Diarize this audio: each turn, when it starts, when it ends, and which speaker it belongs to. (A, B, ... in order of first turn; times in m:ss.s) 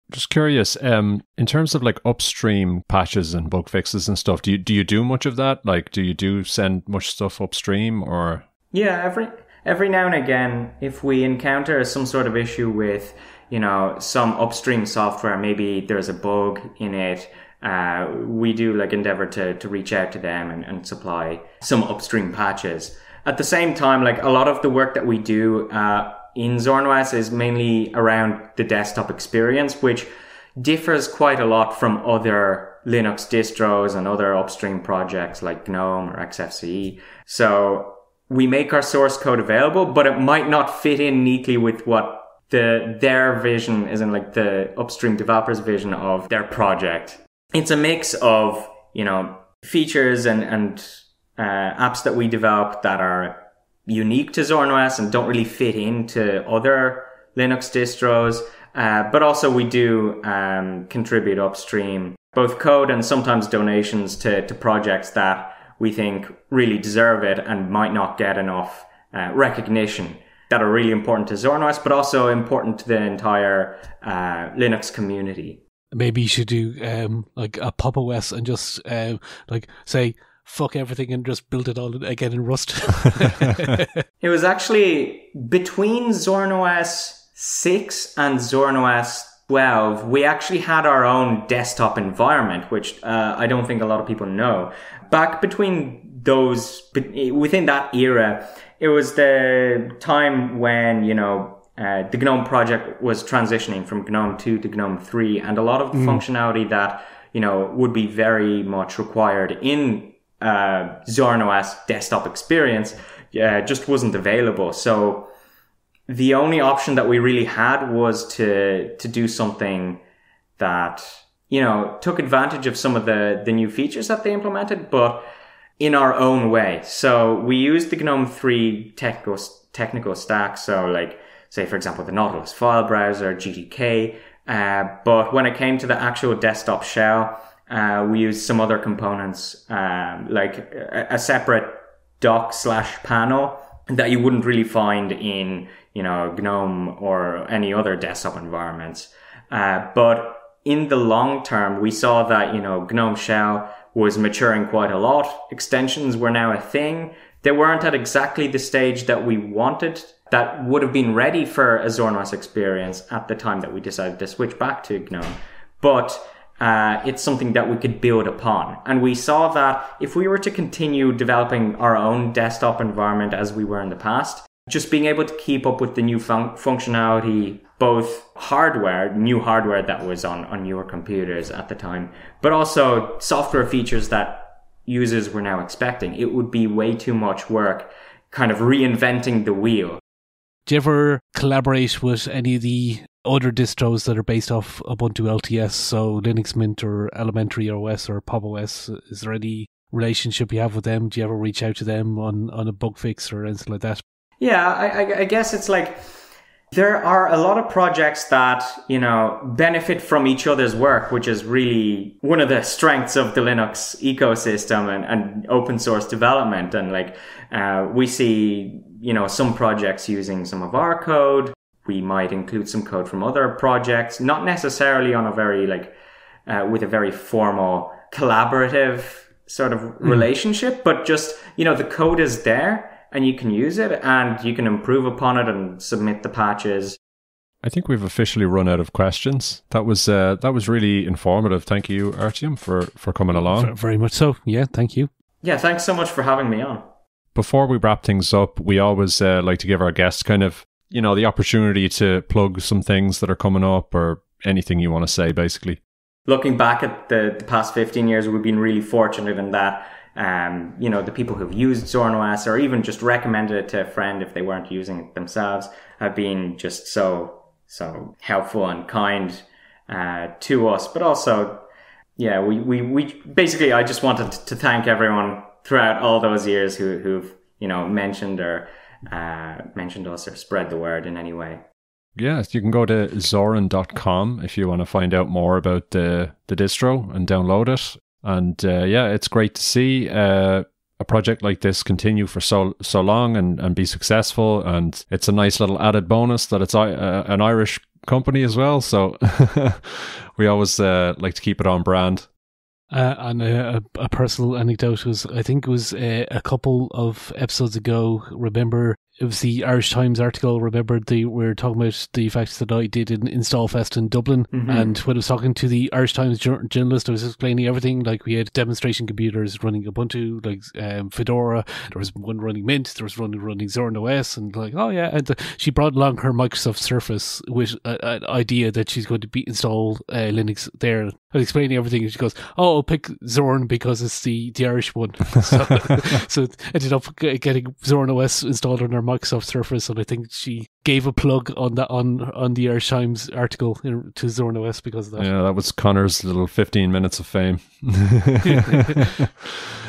0:00.1-0:08.4 A
0:08.7-1:15.6 B
1:15.9-1:23.9 C
1:24.2-1:55.3 B
1:45.9-1:46.2 C
1:56.1-2:00.0 B
2:00.6-2:05.2 B
2:05.8-3:10.0 B
3:10.7-3:24.0 C
3:24.4-3:26.0 B
3:26.7-3:45.9 B
3:46.5-3:57.0 B
3:57.6-4:03.7 A
4:03.4-4:05.1 C
4:05.4-4:06.8 B
4:07.4-4:15.8 A
4:16.3-4:31.6 B
4:32.2-4:41.6 B
4:42.2-5:02.3 A
5:02.9-5:45.3 C
5:14.5-5:15.0 B
5:45.2-5:49.6 A